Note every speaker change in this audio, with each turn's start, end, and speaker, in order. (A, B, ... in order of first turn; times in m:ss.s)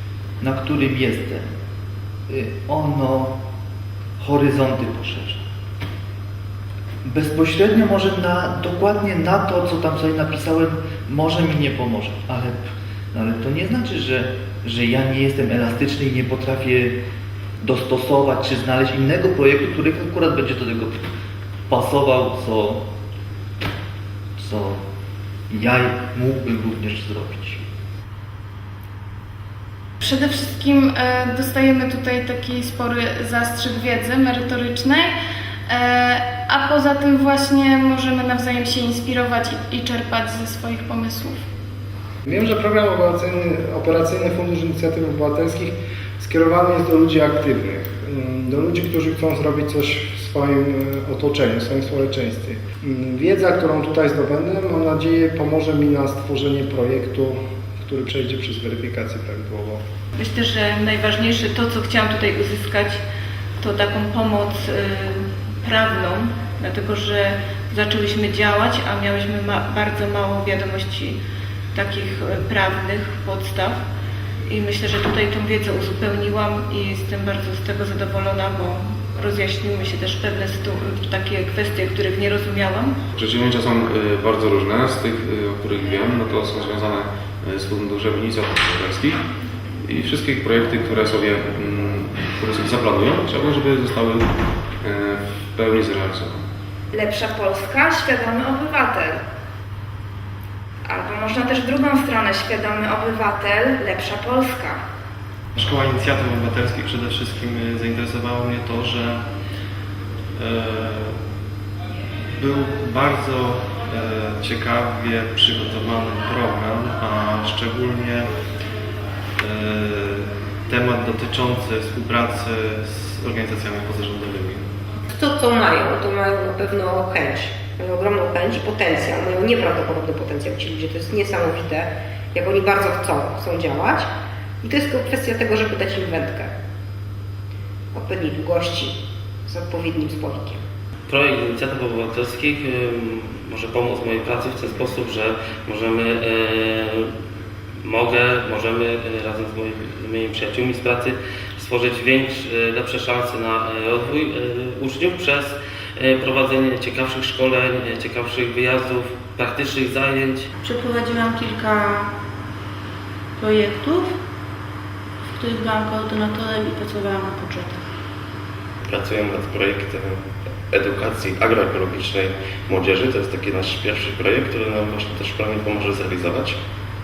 0:00.4-0:01.5 A
0:02.3-0:03.4 A
0:04.2-0:05.4 A
0:07.0-0:17.0 A
0:17.6-0:21.0 A
0:21.7-0:22.8 A
0:24.4-0:24.8 A
0:25.5-0:27.6 A
0:30.0-0:35.1 B
0:35.7-0:41.4 B
0:42.2-0:59.8 C
1:00.2-1:03.0 D
1:03.6-1:11.2 D
1:11.7-1:13.8 D
1:14.5-1:22.9 D
1:23.2-1:29.2 E
1:29.8-1:34.3 E
1:34.8-1:36.4 E
1:36.9-1:39.2 F
1:40.8-1:44.8 F
1:45.6-1:49.2 G
1:50.4-1:51.1 G
1:52.4-1:58.3 G
1:59.4-2:04.7 G
2:05.1-2:14.1 H
2:14.6-2:16.5 H
2:17.9-2:20.6 H
2:21.1-2:27.1 I
2:27.8-2:40.4 I
2:40.6-2:42.1 J
2:43.4-2:44.1 J
2:45.4-2:47.8 J
2:48.9-2:50.1 K
2:50.7-2:56.5 K